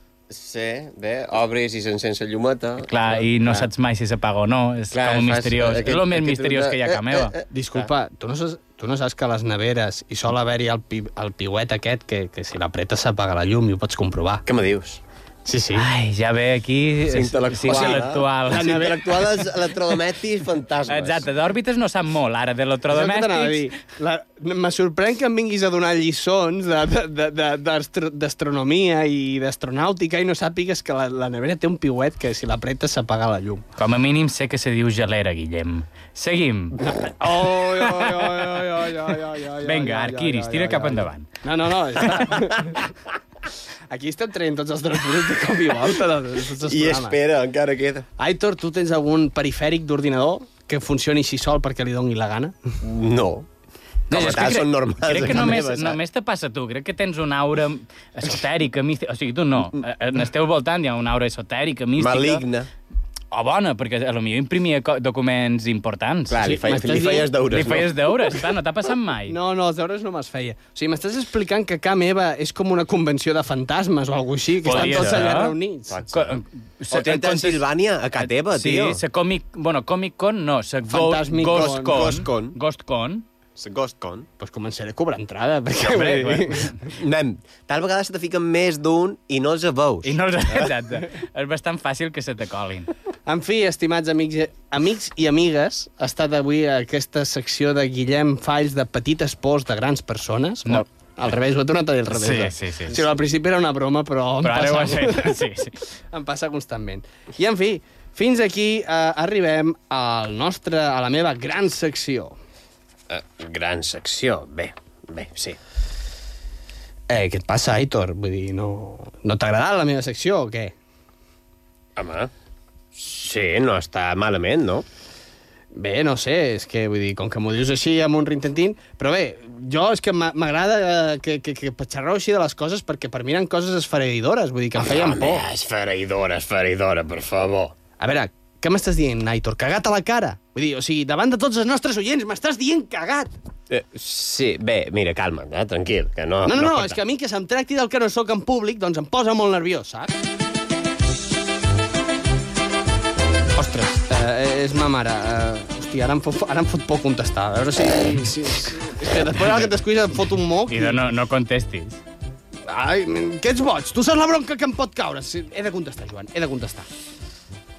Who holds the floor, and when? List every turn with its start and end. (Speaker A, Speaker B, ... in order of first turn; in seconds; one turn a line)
Speaker A: 0.3-3.7
Speaker B: 2.9-7.3
Speaker A: 4.9-7.9
Speaker C: 7.5-14.4
Speaker A: 14.4-15.0
Speaker C: 15.4-15.9
Speaker B: 15.7-18.9
Speaker A: 17.1-21.2
Speaker C: 17.6-18.9
Speaker B: 20.9-23.7
Speaker C: 22.9-33.6
Speaker B: 33.8-36.8
Speaker C: 36.8-42.8
Speaker B: 37.6-38.6
Speaker B: 39.6-41.4
Speaker C: 43.9-47.2
Speaker A: 46.6-48.1
Speaker C: 48.2-52.5
Speaker A: 52.8-53.5
Speaker A: 54.1-56.0
Speaker B: 54.1-62.4
Speaker A: 62.0-62.7
Speaker B: 63.3-66.5
Speaker A: 66.3-67.9
Speaker C: 66.4-67.3
Speaker B: 67.5-69.3
Speaker C: 69.3-76.0
Speaker B: 74.6-75.5
Speaker A: 74.7-75.3
Speaker A: 75.9-76.3
Speaker B: 76.1-77.6
Speaker A: 76.9-79.0
Speaker B: 78.2-83.2
Speaker C: 80.9-82.1
Speaker A: 81.5-82.6
Speaker A: 83.6-84.3
Speaker C: 84.4-86.7
Speaker B: 85.8-86.8
Speaker A: 86.8-90.7
Speaker B: 90.0-92.9
Speaker C: 93.2-105.4
Speaker B: 102.1-103.0
Speaker B: 104.4-105.7
Speaker C: 106.1-112.3
Speaker A: 113.1-115.6
Speaker C: 117.1-120.7
Speaker A: 122.0-122.3
Speaker A: 122.9-124.8
Speaker C: 125.7-135.4
Speaker A: 134.8-137.8
Speaker C: 138.0-143.3
Speaker A: 143.7-147.0
Speaker C: 146.4-150.1
Speaker C: 153.6-161.0
Speaker B: 159.4-159.7
Speaker B: 160.7-162.0
Speaker C: 162.7-166.9